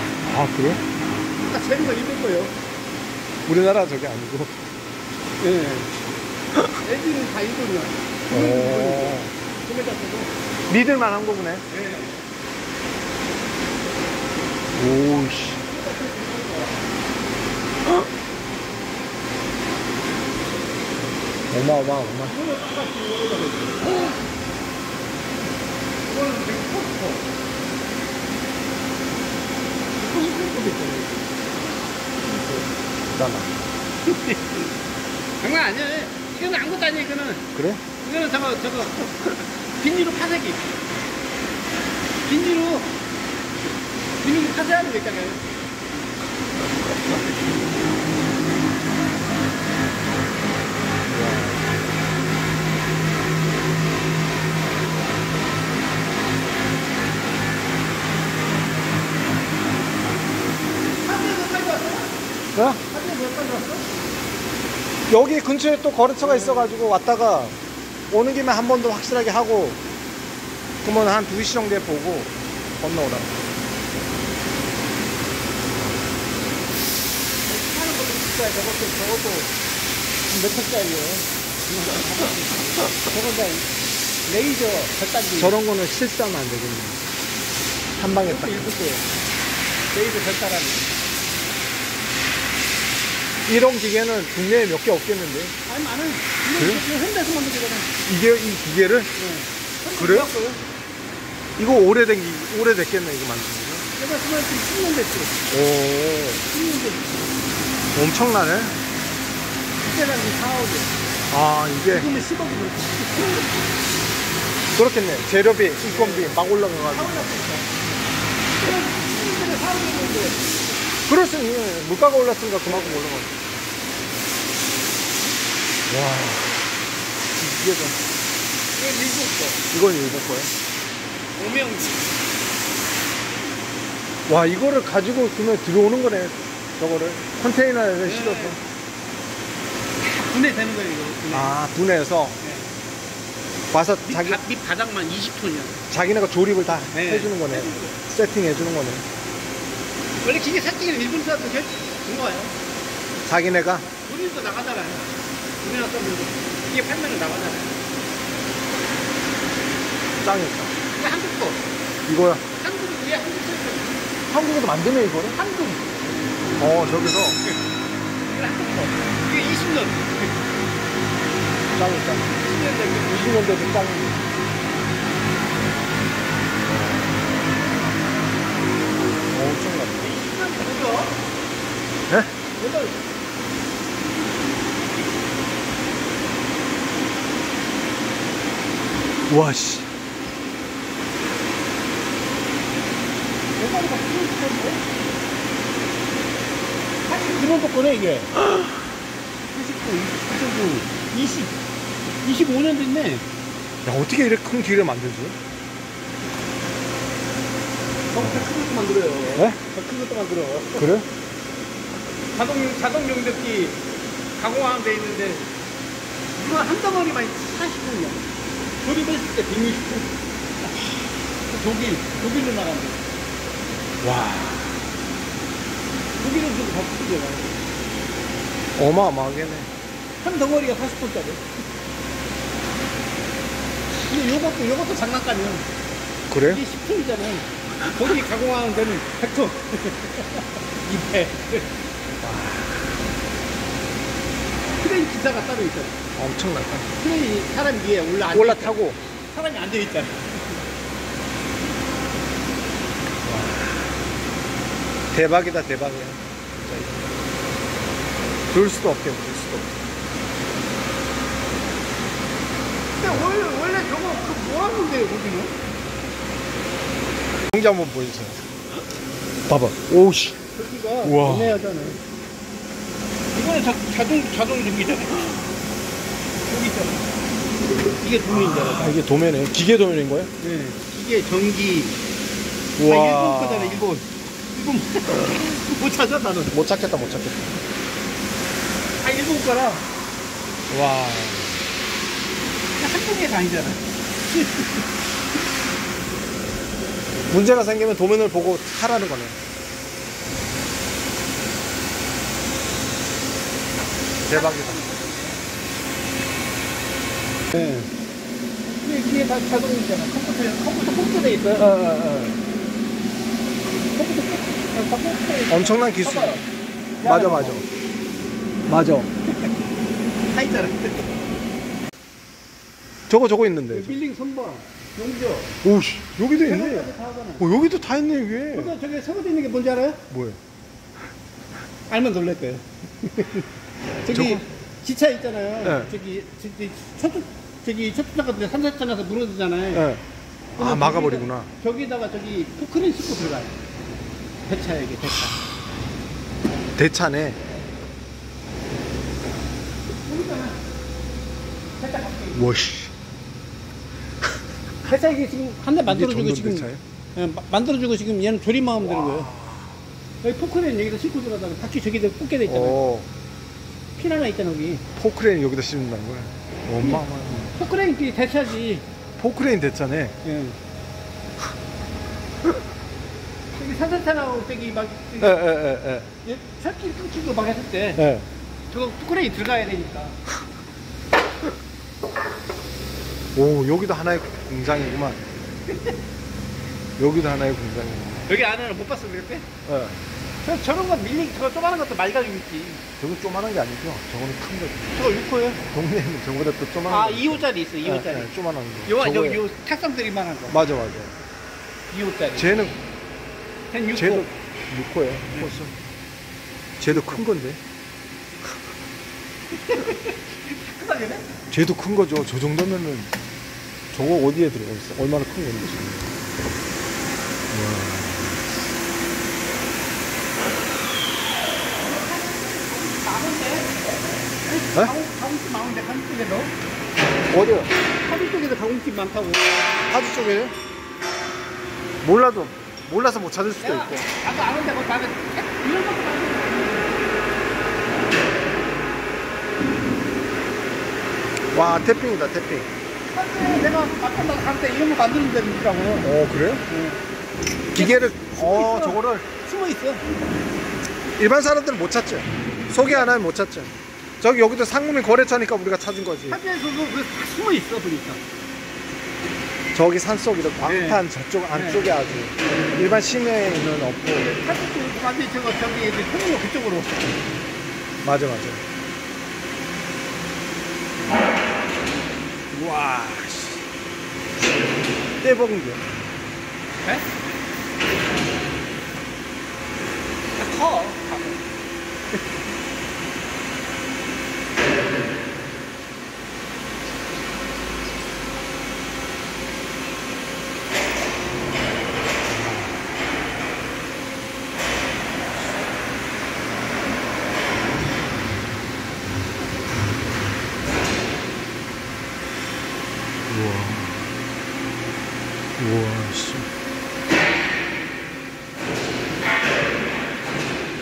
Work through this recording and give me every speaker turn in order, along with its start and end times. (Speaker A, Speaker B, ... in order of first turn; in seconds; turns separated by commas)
Speaker A: 0.2-0.8, Speaker B: 1.4-2.5, Speaker A: 3.5-4.7, Speaker B: 5.4-5.9, Speaker B: 6.8-10.3, Speaker A: 8.3-9.3, Speaker A: 10.7-11.7, Speaker B: 11.7-12.2, Speaker A: 14.8-15.6, Speaker B: 15.5-16.8, Speaker A: 21.5-22.3, Speaker B: 22.3-24.1, Speaker B: 26.0-27.2, Speaker B: 29.9-31.4, Speaker B: 32.2-32.6, Speaker A: 33.1-33.6, Speaker B: 34.1-34.7, Speaker B: 35.4-37.5, Speaker A: 37.5-37.8, Speaker B: 38.0-40.8, Speaker B: 42.2-42.9, Speaker B: 44.2-45.4, Speaker A: 51.1-51.7, Speaker B: 61.0-62.1, Speaker A: 62.5-62.8, Speaker B: 62.8-63.9, Speaker A: 65.1-67.5, Speaker B: 66.2-66.7, Speaker A: 68.1-69.8, Speaker A: 70.8-73.4, Speaker B: 77.5-79.5, Speaker B: 80.3-83.7, Speaker B: 84.3-85.6, Speaker A: 85.4-87.0, Speaker A: 88.0-88.7, Speaker B: 88.2-89.0, Speaker B: 89.9-91.0, Speaker A: 93.5-95.5, Speaker B: 95.7-97.9, Speaker A: 96.6-96.8, Speaker A: 98.0-99.1, Speaker B: 99.2-100.6, Speaker A: 100.0-100.3, Speaker A: 101.6-103.8, Speaker B: 104.0-105.4, Speaker A: 105.5-106.4, Speaker B: 106.5-107.1, Speaker A: 107.9-108.8, Speaker B: 109.8-110.9, Speaker A: 111.3-112.1, Speaker B: 111.8-113.5, Speaker A: 114.7-117.3, Speaker B: 115.8-117.7, Speaker B: 118.5-120.5, Speaker A: 121.1-123.4, Speaker A: 125.9-126.6, Speaker A: 127.3-128.0, Speaker B: 128.7-129.6, Speaker A: 129.7-130.5, Speaker B: 131.4-132.1, Speaker A: 134.3-138.6, Speaker B: 138.0-138.6, Speaker B: 140.0-141.6, Speaker A: 141.3-142.4, Speaker B: 142.4-142.7, Speaker A: 143.7-144.4, Speaker B: 144.1-145.8, Speaker A: 145.9-149.0, Speaker B: 146.9-148.0, Speaker B: 150.2-152.6, Speaker A: 153.2-153.9, Speaker B: 153.9-155.1, Speaker B: 155.6-157.7, Speaker A: 160.2-160.7, Speaker B: 160.9-161.6, Speaker A: 162.1-162.4, Speaker B: 162.6-164.1, Speaker A: 164.3-165.4, Speaker B: 165.3-166.3, Speaker A: 166.6-167.4, Speaker B: 168.3-170.3, Speaker A: 171.7-172.3, Speaker B: 172.3-173.3, Speaker A: 173.1-174.2, Speaker A: 179.3-180.1, Speaker B: 180.0-181.1, Speaker B: 182.6-183.0, Speaker A: 189.3-189.9, Speaker B: 193.6-194.8, Speaker B: 197.1-198.3, Speaker B: 199.5-201.5, Speaker B: 202.2-203.3, Speaker A: 203.8-205.3, Speaker B: 208.1-210.9, Speaker A: 208.2-208.5, Speaker A: 210.8-211.1, Speaker B: 212.3-213.8, Speaker B: 214.4-215.5, Speaker B: 216.3-218.3, Speaker B: 218.8-220.1, Speaker B: 220.6-223.0, Speaker A: 224.0-224.8, Speaker B: 226.2-227.6, Speaker A: 228.8-229.7, Speaker B: 230.2-231.4, Speaker B: 233.9-235.7, Speaker A: 236.3-236.6, Speaker B: 236.4-241.7, Speaker A: 242.1-242.9, Speaker B: 244.8-246.0, Speaker A: 246.2-246.9, Speaker B: 247.0-250.6, Speaker A: 248.3-249.0, Speaker A: 253.2-254.0, Speaker A: 255.1-257.1, Speaker A: 258.5-259.7, Speaker B: 263.0-265.5, Speaker A: 267.5-268.4, Speaker A: 269.5-270.4, Speaker B: 270.5-272.0, Speaker A: 271.0-271.6, Speaker B: 273.3-275.5, Speaker B: 276.4-277.0, Speaker B: 278.0-279.0, Speaker A: 278.3-280.3, Speaker B: 280.4-282.0, Speaker A: 282.8-283.9, Speaker B: 282.8-286.5, Speaker A: 286.5-287.6, Speaker B: 289.0-289.9, Speaker A: 290.7-291.6, Speaker B: 292.8-294.9, Speaker A: 297.3-299.4, Speaker A: 304.2-304.8, Speaker B: 304.3-305.4, Speaker B: 307.5-307.9, Speaker B: 308.6-311.7, Speaker A: 311.6-312.4, Speaker B: 313.9-316.4, Speaker A: 315.5-316.4, Speaker B: 317.0-317.6, Speaker A: 317.0-317.6, Speaker A: 318.7-319.1, Speaker B: 319.2-319.5, Speaker B: 320.3-321.1, Speaker A: 323.1-323.9, Speaker B: 323.7-325.5, Speaker A: 325.6-326.9, Speaker B: 326.4-327.4, Speaker A: 327.4-328.7, Speaker B: 328.5-330.0, Speaker A: 330.1-330.4, Speaker B: 331.9-333.4, Speaker B: 334.0-339.9, Speaker A: 334.1-334.4, Speaker A: 335.6-335.9, Speaker A: 339.7-340.0, Speaker B: 340.6-343.6, Speaker A: 340.6-341.5, Speaker B: 344.5-345.4, Speaker A: 346.8-347.4, Speaker B: 350.0-350.6, Speaker B: 351.8-352.4, Speaker A: 352.3-352.9, Speaker B: 354.8-359.3, Speaker A: 355.9-356.8, Speaker A: 358.9-359.7, Speaker B: 360.2-362.8, Speaker A: 362.4-363.1, Speaker B: 363.9-364.8, Speaker A: 364.9-367.5, Speaker B: 367.5-368.8, Speaker A: 369.2-370.1, Speaker B: 370.2-370.6, Speaker B: 373.5-375.4, Speaker A: 375.2-376.1, Speaker B: 376.2-378.0, Speaker A: 378.0-378.3, Speaker B: 378.7-380.2, Speaker A: 383.3-385.2, Speaker A: 387.0-388.2, Speaker B: 388.3-389.4, Speaker A: 389.6-390.0, Speaker B: 390.4-392.8, Speaker A: 393.0-395.0, Speaker B: 394.9-395.6, Speaker A: 395.7-399.4, Speaker B: 396.9-398.3, Speaker B: 398.9-400.6, Speaker A: 400.5-401.1, Speaker B: 401.9-402.6, Speaker A: 402.3-402.8, Speaker B: 403.7-404.3, Speaker A: 403.9-405.7, Speaker A: 406.8-407.6, Speaker B: 406.9-407.2, Speaker B: 409.6-411.3, Speaker A: 411.5-413.1, Speaker A: 413.9-416.1, Speaker A: 417.5-418.4, Speaker B: 421.8-423.8, Speaker B: 424.4-426.5, Speaker A: 427.3-427.7, Speaker B: 428.0-429.5, Speaker A: 429.9-430.6, Speaker A: 432.0-434.1, Speaker B: 433.6-437.0, Speaker A: 441.5-442.7, Speaker B: 443.1-446.1, Speaker A: 446.0-446.6, Speaker B: 446.7-447.0, Speaker A: 447.7-449.2, Speaker B: 447.7-450.0, Speaker A: 451.2-456.4, Speaker B: 456.3-458.2, Speaker A: 459.7-464.3, Speaker B: 460.6-461.8, Speaker B: 464.4-467.1, Speaker A: 468.0-468.6, Speaker A: 472.5-473.6, Speaker A: 475.2-475.9, Speaker B: 476.8-477.1, Speaker B: 480.4-481.4, Speaker A: 492.3-492.9, Speaker A: 503.3-504.2, Speaker A: 505.6-506.5